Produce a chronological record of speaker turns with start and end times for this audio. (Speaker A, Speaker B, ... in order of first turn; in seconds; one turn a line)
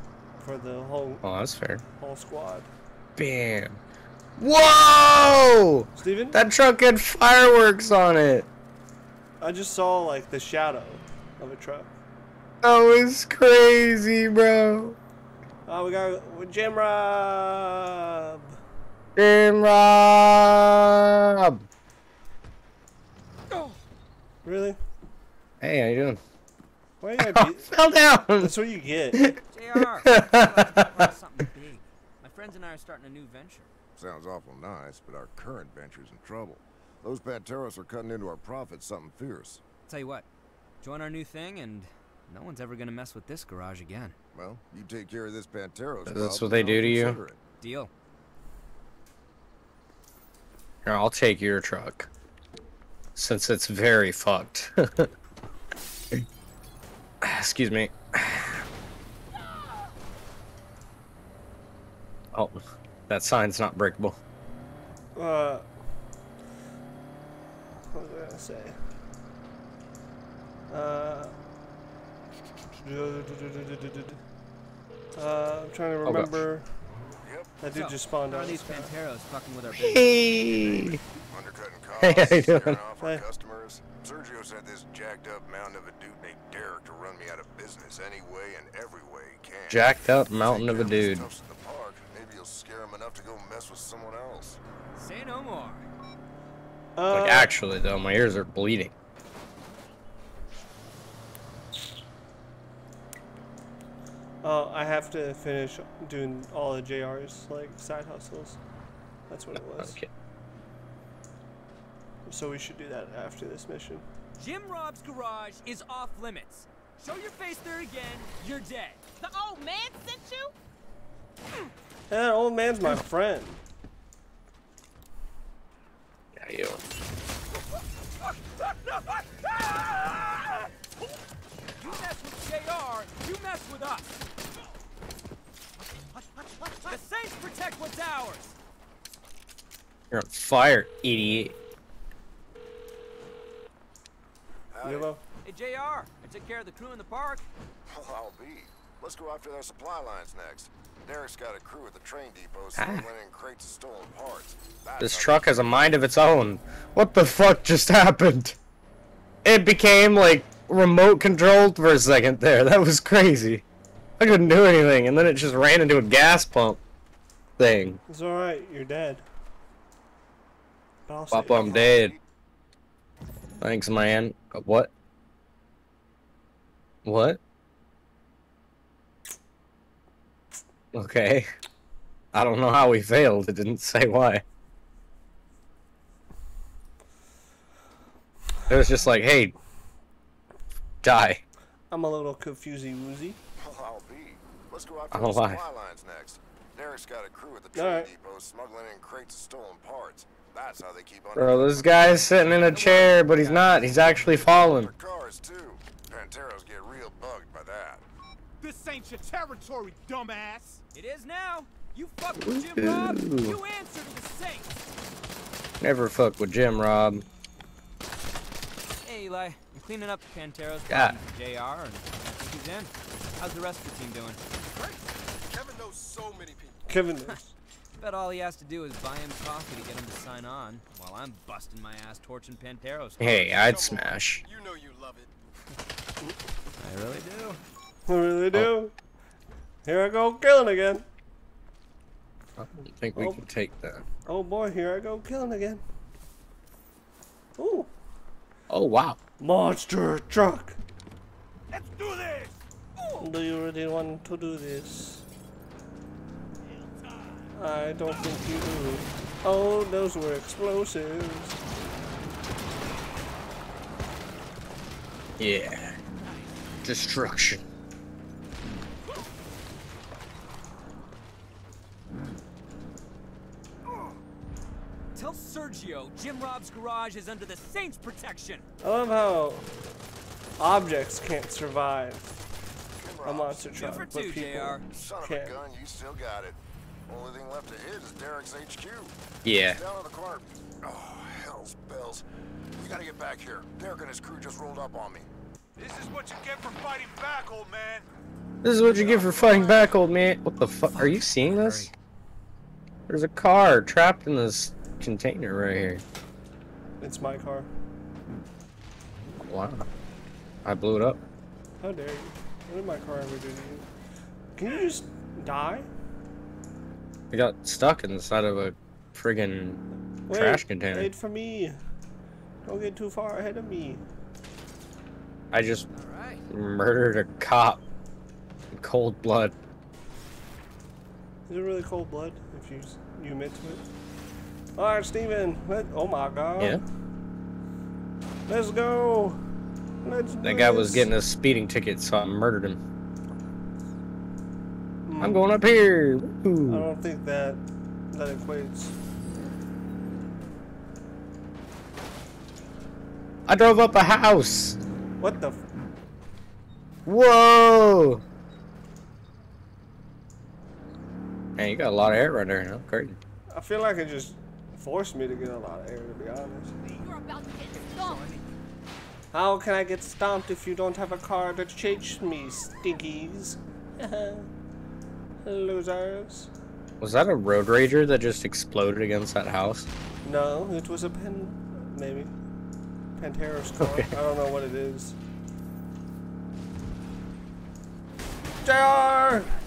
Speaker A: 0.4-1.2
Speaker B: 1.2-1.8
Speaker A: 2.0-2.7
Speaker B: 3.2-3.8
Speaker B: 4.4-8.5
Speaker A: 6.0-6.4
Speaker A: 9.4-11.9
Speaker B: 12.6-15.0
Speaker A: 15.7-18.6
Speaker B: 19.2-21.6
Speaker C: 23.5-23.8
Speaker A: 24.4-24.8
Speaker B: 25.6-26.2
Speaker A: 27.0-27.8
Speaker B: 27.2-28.5
Speaker A: 28.4-29.2
Speaker C: 29.5-33.7
Speaker B: 30.0-30.7
Speaker D: 34.0-39.6
Speaker C: 39.9-40.2
Speaker C: 40.8-44.2
Speaker D: 44.3-47.4
Speaker B: 46.0-47.2
Speaker C: 47.6-47.9
Speaker B: 50.8-52.1
Speaker B: 53.2-55.1
Speaker B: 57.2-58.6
Speaker B: 62.3-64.2
Speaker A: 65.2-65.7
Speaker A: 67.9-68.8
Speaker A: 70.7-71.3
Speaker A: 72.8-74.2
Speaker A: 75.1-76.7
Speaker B: 76.0-76.4
Speaker D: 77.2-77.5
Speaker A: 77.6-78.9
Speaker C: 77.7-81.0
Speaker B: 79.7-81.0
Speaker D: 81.3-94.6
Speaker B: 82.0-82.8
Speaker A: 83.0-83.2
Speaker B: 89.7-91.3
Speaker C: 95.0-95.8
Speaker A: 97.0-97.5
Speaker B: 97.1-98.9
Speaker A: 104.4-108.6
Speaker A: 109.3-110.0
Speaker B: 109.8-110.1
Speaker A: 112.3-114.0
Speaker C: 114.3-119.1
Speaker E: 119.2-120.5
Speaker A: 122.1-123.6
Speaker B: 126.3-126.8
Speaker C: 129.6-130.1
Speaker C: 131.8-134.2
Speaker C: 136.9-138.6
Speaker B: 140.1-141.5
Speaker D: 144.7-145.1
Speaker A: 144.8-145.2
Speaker C: 145.4-147.5
Speaker D: 147.9-155.6
Speaker B: 152.8-153.1
Speaker B: 155.0-158.6
Speaker B: 159.4-163.6
Speaker B: 164.2-166.8
Speaker B: 167.6-168.0
Speaker A: 168.1-169.3
Speaker A: 171.1-171.9
Speaker B: 171.3-172.2
Speaker D: 171.5-172.2
Speaker B: 173.6-174.9
Speaker B: 177.0-177.4
Speaker B: 180.9-181.5
Speaker B: 182.3-184.4
Speaker B: 188.7-189.5
Speaker B: 191.0-191.4
Speaker A: 191.9-193.4
Speaker D: 193.6-202.5
Speaker B: 195.1-195.6
Speaker A: 197.7-198.1
Speaker B: 201.3-204.9
Speaker C: 202.6-203.9
Speaker D: 204.5-208.0
Speaker F: 208.6-210.8
Speaker C: 210.9-214.8
Speaker B: 212.4-213.6
Speaker B: 215.8-217.2
Speaker C: 219.0-224.4
Speaker B: 220.9-221.2
Speaker G: 224.7-226.8
Speaker A: 226.9-227.5
Speaker C: 228.0-233.5
Speaker B: 233.2-234.4
Speaker G: 233.3-235.3
Speaker C: 236.8-237.6
Speaker A: 238.1-238.9
Speaker A: 239.8-241.0
Speaker B: 242.6-244.1
Speaker A: 243.2-243.4
Speaker A: 244.3-245.8
Speaker A: 247.6-247.9
Speaker B: 248.7-249.2
Speaker A: 249.4-250.8
Speaker A: 253.2-255.2
Speaker A: 257.5-261.6
Speaker B: 265.4-266.0
Speaker B: 266.9-267.6
Speaker C: 275.1-278.6
Speaker A: 278.8-279.7
Speaker A: 280.6-282.4
Speaker D: 283.0-283.9
Speaker A: 283.2-285.6
Speaker C: 283.8-284.9
Speaker D: 284.9-289.1
Speaker B: 289.4-289.8
Speaker D: 289.7-292.2
Speaker D: 292.8-295.3
Speaker F: 295.8-298.1
Speaker B: 298.6-301.9
Speaker C: 300.9-301.9
Speaker B: 303.1-306.0
Speaker A: 307.0-307.7
Speaker B: 309.4-309.9
Speaker B: 310.6-311.2
Speaker A: 311.8-313.9
Speaker A: 314.5-315.9
Speaker B: 317.3-319.8
Speaker A: 320.3-321.8
Speaker B: 320.3-321.1
Speaker A: 322.6-324.0
Speaker B: 325.5-325.9
Speaker C: 325.9-326.4
Speaker B: 326.5-327.8
Speaker B: 328.7-329.5
Speaker A: 331.5-333.8
Speaker A: 334.8-336.8
Speaker A: 338.5-339.4
Speaker A: 340.0-341.1
Speaker B: 340.4-342.8
Speaker A: 345.1-345.4
Speaker B: 345.2-346.9
Speaker A: 346.7-348.9
Speaker B: 353.5-354.8
Speaker A: 355.2-355.6
Speaker B: 357.1-358.2
Speaker B: 361.6-363.2
Speaker A: 363.5-366.7
Speaker E: 367.0-368.2
Speaker C: 367.8-368.4
Speaker A: 369.3-374.5
Speaker A: 375.4-376.5
Speaker B: 377.0-379.9
Speaker A: 380.2-382.3
Speaker A: 383.1-385.2
Speaker B: 383.8-384.1
Speaker A: 388.6-389.5